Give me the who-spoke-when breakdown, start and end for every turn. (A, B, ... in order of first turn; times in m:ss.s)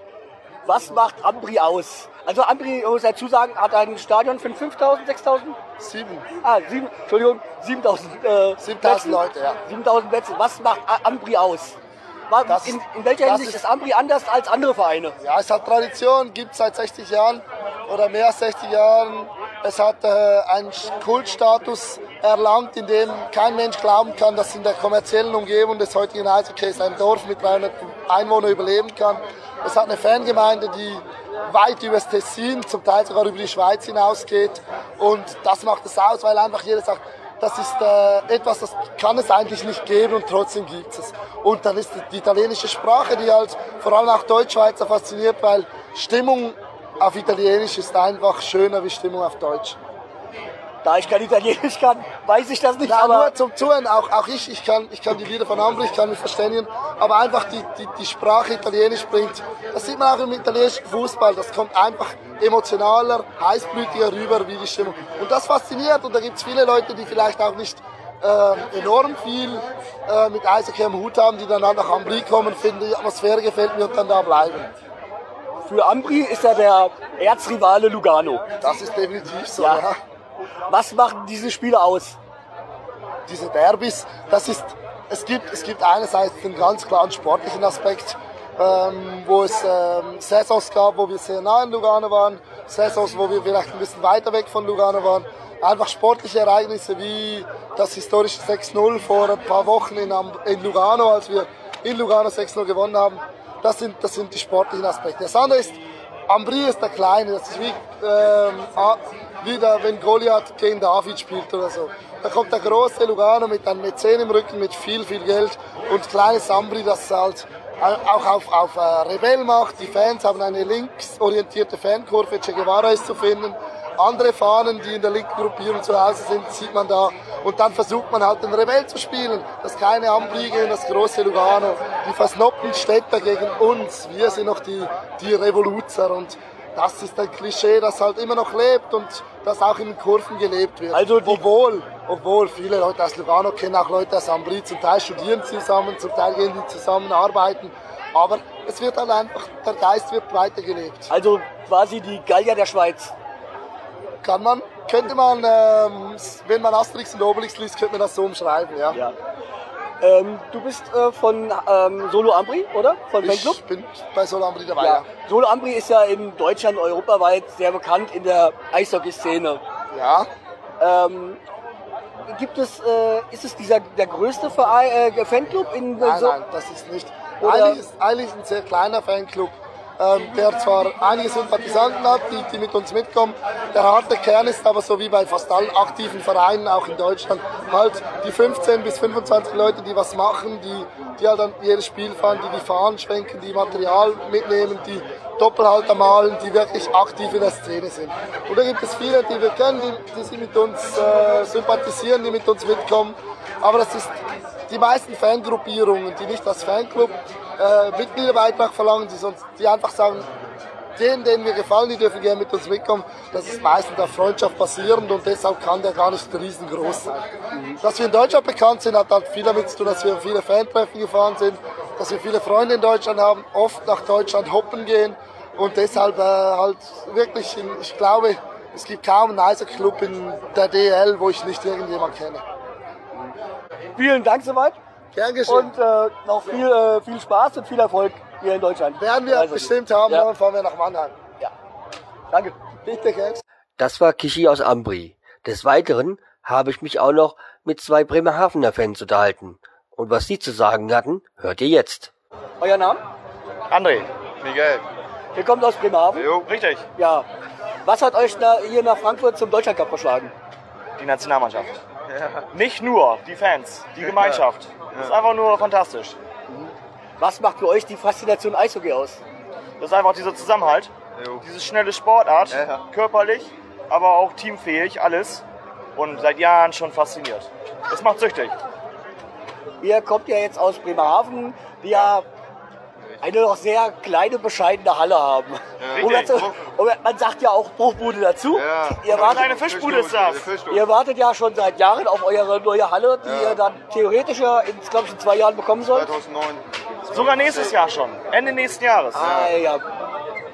0:00.6-0:05.6 A
0:05.8-0:06.3 B
0:06.4-0:11.8 A
0:08.6-0:09.6 B
0:12.3-0:15.2 A
0:12.5-0:13.6 B
0:15.2-0:49.8 B
0:50.8-0:53.4 A
0:52.8-1:14.7 B
1:15.6-1:18.4 A
1:18.6-1:20.0 B
1:19.6-1:19.8 A
1:20.7-1:22.2 A
1:23.3-2:31.1 B
2:20.9-2:21.4 A
2:31.1-2:33.1 A
2:34.2-2:39.0 B
2:38.9-2:39.2 A
2:40.0-2:43.6 A
2:43.2-2:45.1 B
2:44.8-2:49.6 A
2:49.9-2:50.3 B
2:50.8-2:51.4 A
2:52.3-2:56.4 A
2:56.0-3:24.2 B
2:57.4-2:57.8 A
3:24.7-3:30.3 B
3:31.0-3:37.3 B
3:37.5-3:37.8 A
3:37.8-3:52.4 B
3:54.0-3:54.8 A
3:55.1-3:55.8 B
3:55.5-4:00.3 A
3:59.0-4:01.2 B
4:02.3-4:02.6 A
4:02.8-4:03.4 B
4:03.8-4:12.1 C
4:12.6-4:13.0 A
4:13.7-4:14.1 D
4:14.4-4:14.9 E
4:15.4-4:16.3 A
4:16.2-4:16.5 E
4:16.4-4:16.9 D
4:17.0-4:17.3 A
4:17.8-4:20.3 A
4:21.0-4:21.8 D
4:22.5-4:26.2 D
4:27.2-4:29.2 A
4:29.8-4:35.4 D
4:31.2-4:31.4 E
4:32.5-4:32.8 E
4:36.0-4:38.6 D
4:39.8-4:42.3 A
4:43.2-4:49.6 A
4:45.8-4:46.6 E
4:45.8-4:46.4 D
4:48.5-4:50.9 E
4:49.0-4:50.5 D
4:50.7-4:56.1 A
4:53.2-4:53.6 E
4:55.8-4:57.8 E
4:57.1-4:59.3 D
4:59.1-4:59.9 A
4:59.2-4:59.5 E